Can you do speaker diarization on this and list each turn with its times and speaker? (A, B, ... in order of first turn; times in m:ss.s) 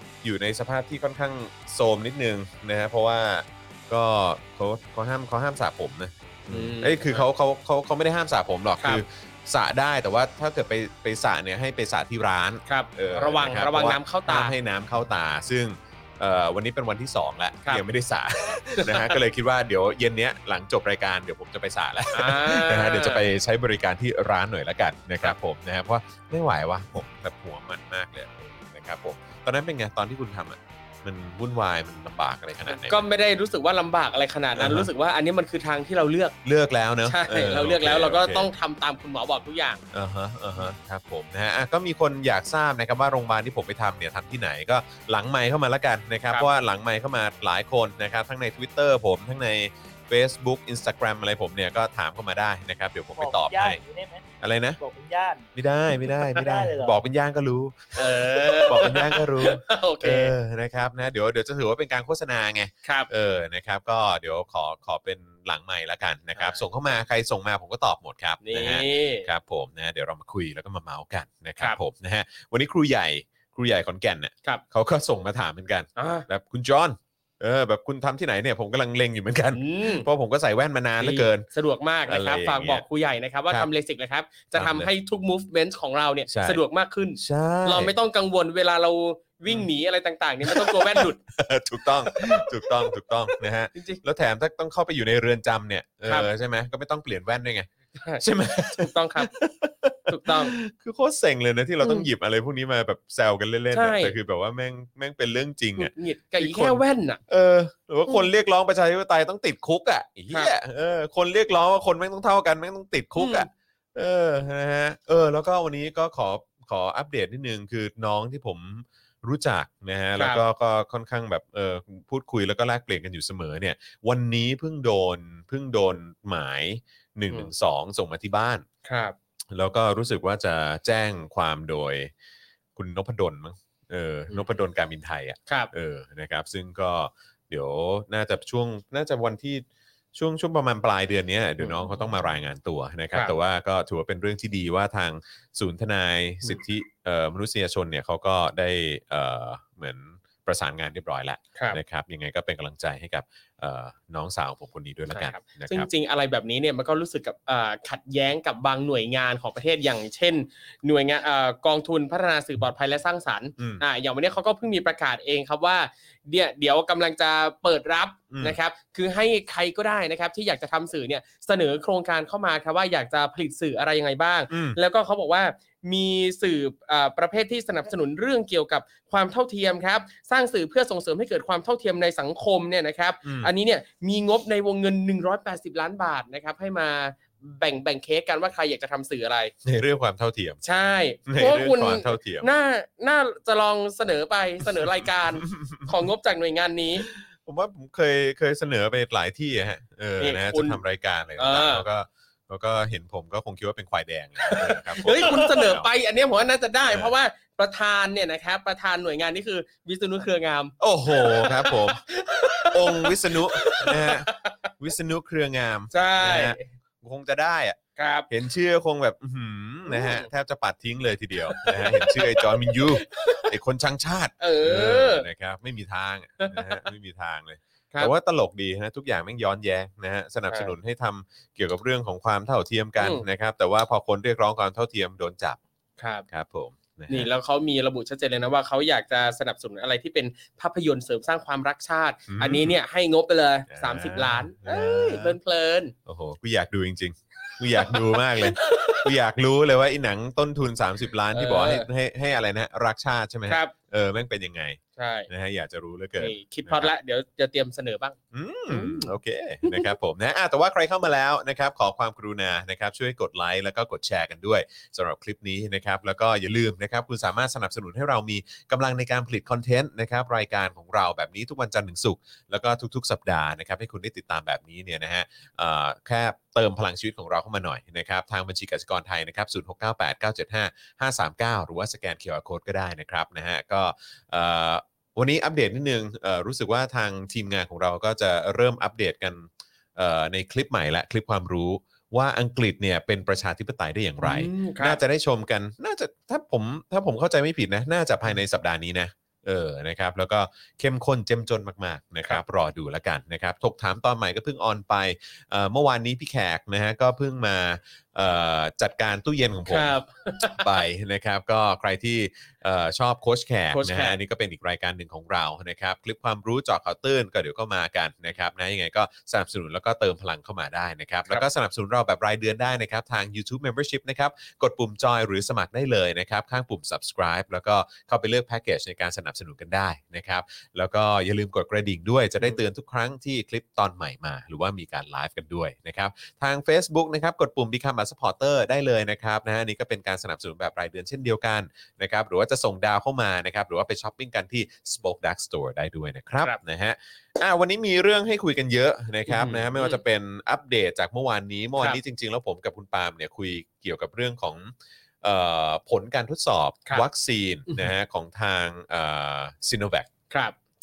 0:00.2-0:33.0 A
0:06.5-0:07.2 B
0:12.7-0:14.5 B
0:18.7-0:19.1 B
0:22.1-0:23.2 B
0:32.7-0:36.3 B
0:34.6-0:34.9 A
0:36.4-0:38.5 A
0:37.0-0:39.8 B
0:39.9-0:53.8 A
0:53.2-0:54.2 C
0:54.4-0:54.8 A
0:54.8-0:55.5 C
0:55.6-1:21.5 A
0:56.0-0:57.0 C
0:57.9-1:00.3 B
1:06.4-1:06.6 B
1:08.4-1:09.3 B
1:16.0-1:16.3 B
1:19.5-1:20.1 B
1:21.0-1:31.2 B
1:22.1-1:22.8 A
1:24.5-1:24.9 A
1:26.3-1:26.6 A
1:27.2-1:27.9 A
1:30.4-1:37.7 A
1:32.1-1:32.4 B
1:33.7-1:34.0 B
1:38.0-1:39.3 B
1:38.2-2:08.6 A
1:40.1-1:40.6 B
1:41.8-1:42.1 B
1:43.7-1:44.2 B
1:45.8-1:47.2 B
1:53.2-1:53.5 B
2:00.2-2:00.4 B
2:08.8-2:09.1 B
2:09.5-2:12.1 A
2:12.8-2:35.9 A
2:21.6-2:22.3 B
2:35.1-3:09.5 B
2:43.6-2:43.8 A
2:48.3-2:48.6 A
2:54.5-2:54.8 A
3:03.2-3:03.5 A
3:09.6-3:10.6 A
3:10.6-3:17.1 B
3:11.3-3:12.5 A
3:14.8-3:15.9 A
3:17.0-3:25.9 A
3:20.2-3:20.8 B
3:21.4-3:21.8 B
3:24.4-3:34.7 B
3:30.8-3:32.0 A
3:32.6-3:37.8 A
3:35.9-3:36.7 B
3:38.0-3:38.3 B
3:38.3-3:55.6 A
3:39.8-3:40.3 B
3:41.4-3:43.5 B
3:44.4-3:45.2 B
3:46.4-3:46.8 B
3:50.5-3:50.7 B
3:53.0-3:53.2 B
3:56.0-3:56.2 B
3:56.3-3:57.3 A
3:57.1-4:05.9 B
4:02.3-4:02.8 A
4:03.7-4:05.4 A
4:06.0-4:16.9 A
4:07.5-4:09.1 B
4:11.3-4:11.9 B
4:13.5-4:13.7 B
4:15.0-4:15.3 B
4:16.2-4:18.2 B
4:18.3-6:00.1 A
4:18.7-4:19.1 B
4:19.6-4:19.9 B
4:54.2-4:55.0 B
5:09.7-5:10.7 B
5:13.7-5:14.2 B
5:49.3-5:50.0 B
6:00.3-6:00.6 B